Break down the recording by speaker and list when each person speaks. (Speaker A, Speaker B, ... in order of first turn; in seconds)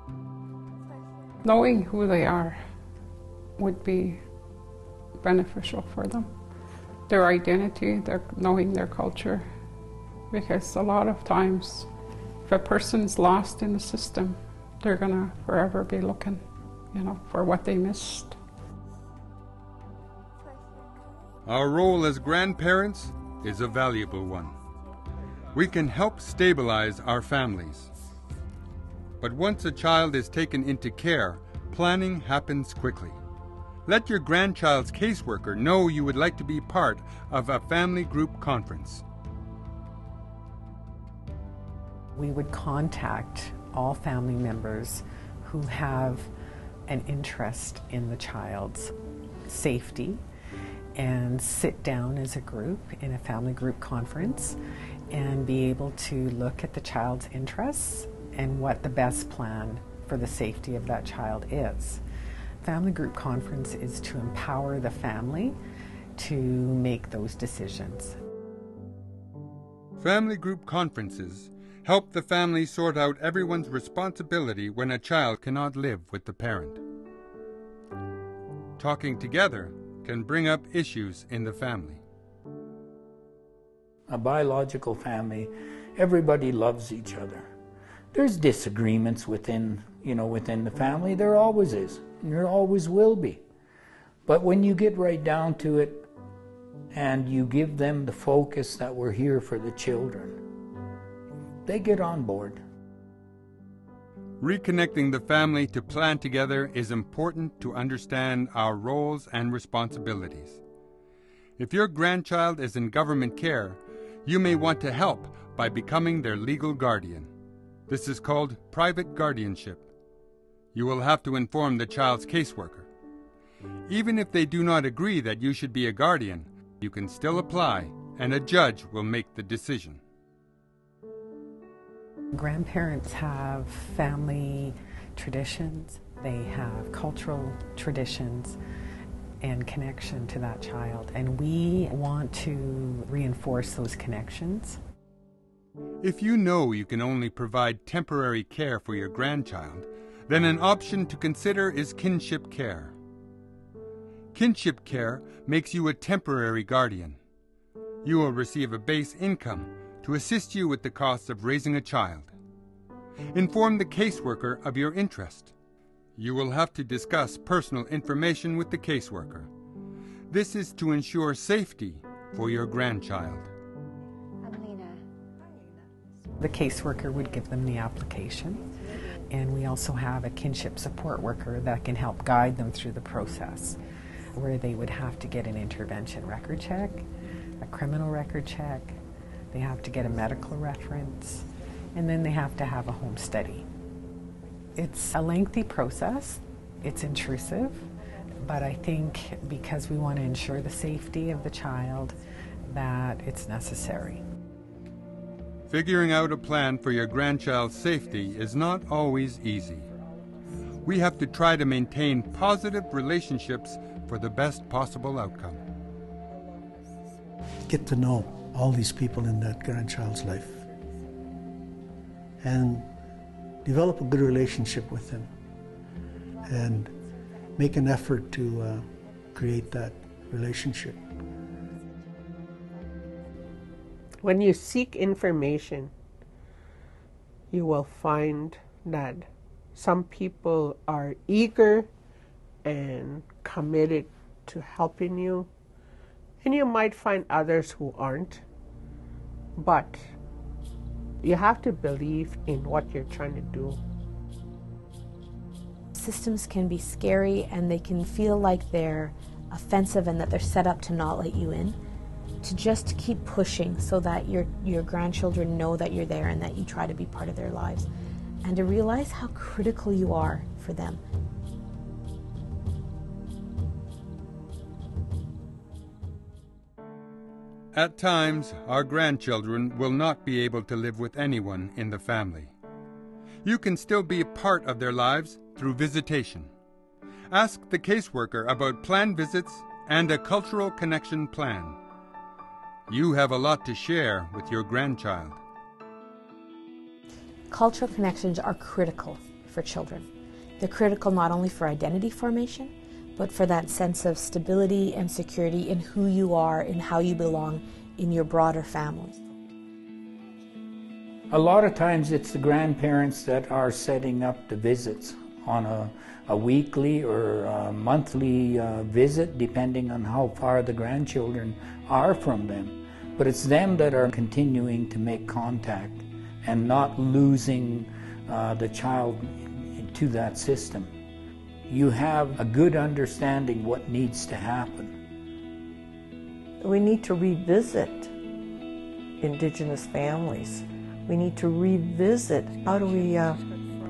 Speaker A: 1.4-2.6, 3.6-4.2, 5.2-6.3, 7.1-9.5, 10.3-11.9, 12.4-18.4
Speaker B: 21.5-24.6, 25.5-27.9, 29.2-33.2, 33.9-39.0, 70.0-76.8, 78.8-82.0, 104.4-110.6, 111.6-117.3, 117.9-119.9, 120.7-122.9, 123.9-130.0, 146.0-152.9, 154.3-157.2, 158.0-162.3, 163.3-165.5, 166.2-169.5, 170.3-173.5, 205.7-209.9, 210.8-215.6, 277.7-282.5, 283.4-286.5, 287.3-291.8, 292.9-295.4
Speaker C: 42.2-46.3, 46.9-48.9, 49.5-50.2, 51.0-54.6, 55.1-62.0, 62.6-65.6, 66.2-68.2, 132.3-138.6, 139.4-144.8, 176.4-178.7, 179.3-183.8, 184.3-187.1, 187.6-188.9, 189.5-193.7, 194.8-197.9, 198.4-204.2
Speaker D: 84.1-87.5, 88.1-93.4, 94.3-96.1, 96.9-100.4, 101.7-102.6, 311.3-330.9, 331.7-334.9
Speaker E: 217.7-220.6, 222.4-222.9, 223.7-225.3, 226.4-226.9, 227.6-231.0
Speaker F: 234.2-235.9, 237.5-241.9, 242.6-245.5, 246.4-248.4, 249.6-250.1, 251.2-253.8
Speaker G: 256.0-261.8, 262.4-267.9, 268.4-271.0, 297.5-300.1, 300.6-309.2
Speaker H: 336.6-338.1, 339.2-343.4